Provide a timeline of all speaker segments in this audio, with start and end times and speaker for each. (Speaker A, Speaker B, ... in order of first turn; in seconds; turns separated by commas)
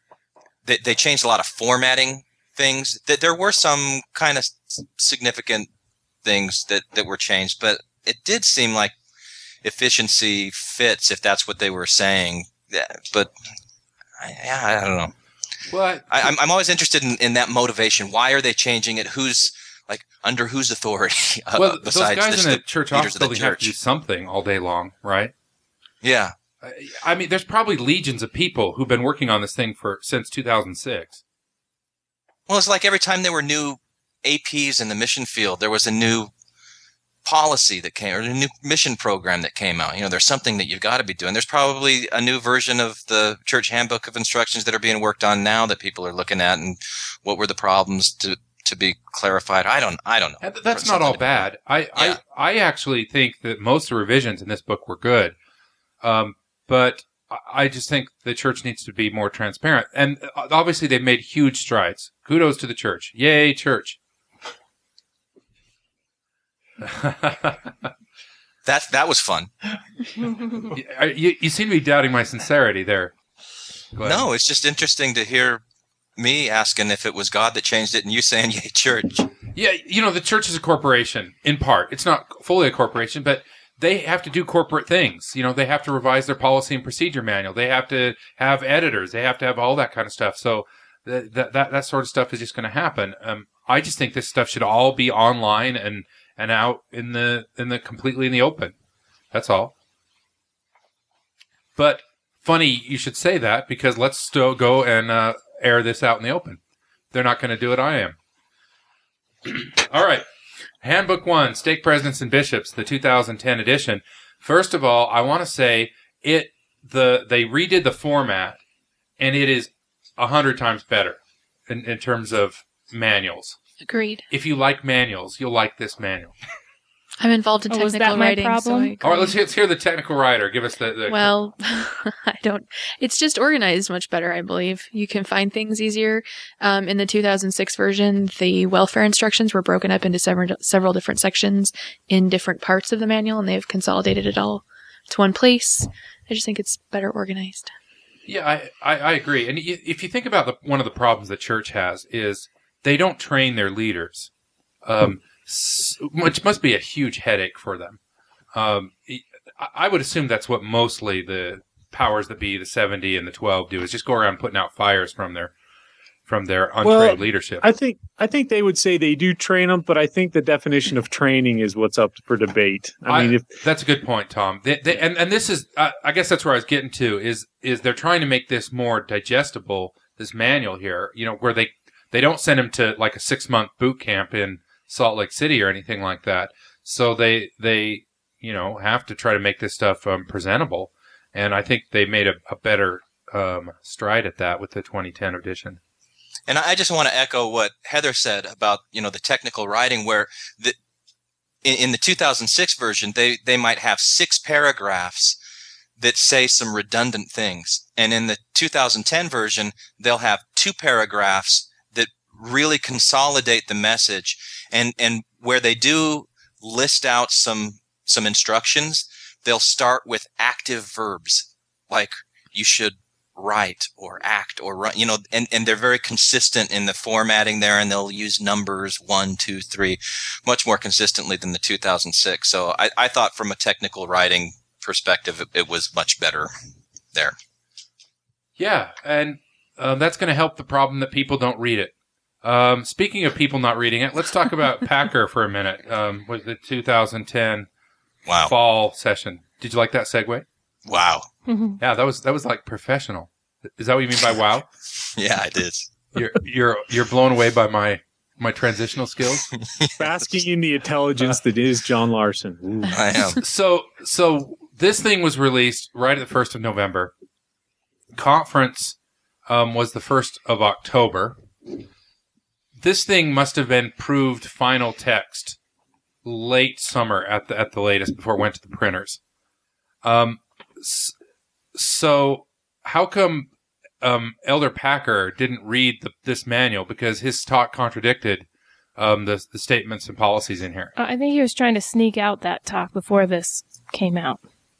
Speaker A: 0.7-5.7, Speaker A: 6.2-8.9, Speaker A: 9.6-13.3, Speaker A: 14.2-15.1, Speaker B: 15.7-16.2, Speaker A: 16.1-23.7, Speaker B: 21.6-25.3, Speaker A: 26.0-26.3, Speaker B: 26.6-31.2, Speaker A: 32.5-36.3, Speaker A: 37.2-52.2, Speaker B: 50.4-55.4, Speaker B: 56.0-64.0, Speaker B: 66.8-67.7, Speaker A: 68.7-69.5, Speaker B: 70.7-73.1, Speaker B: 74.0-74.2, Speaker A: 74.0-75.6, Speaker A: 76.2-79.3, Speaker B: 79.6-98.7, Speaker B: 99.3-99.7, Speaker B: 101.8-106.6, Speaker B: 107.1-108.2, Speaker B: 109.5-110.2, Speaker B: 110.8-118.6, Speaker B: 119.2-123.6, Speaker C: 123.8-124.3, Speaker B: 124.3-126.3, Speaker C: 127.2-129.3, Speaker D: 127.7-129.0, Speaker B: 129.0-131.3, Speaker C: 131.1-147.7, Speaker B: 148.3-154.3, Speaker B: 154.8-158.0, Speaker B: 158.5-165.5, Speaker B: 166.3-167.7, Speaker E: 166.8-173.5, Speaker B: 173.1-195.8, Speaker A: 196.5-200.8, Speaker A: 201.6-205.4, Speaker A: 206.0-236.5, Speaker B: 238.6-241.9, Speaker B: 242.4-247.7, Speaker A: 248.3-248.5, Speaker B: 248.5-250.4, Speaker A: 250.9-251.3, Speaker D: 251.5-251.8, Speaker B: 251.8-254.7, Speaker A: 255.1-255.9, Speaker B: 256.1-259.5, Speaker A: 259.8-260.3, Speaker E: 260.0-263.1, Speaker A: 262.9-263.4, Speaker B: 263.4-267.1, Speaker B: 268.1-269.0, Speaker B: 269.5-271.4, Speaker B: 272.8-275.6, Speaker B: 276.2-279.2, Speaker B: 280.0-281.1, Speaker B: 281.8-283.5, Speaker B: 284.0-288.5, Speaker B: 289.0-290.9, Speaker D: 291.0-294.4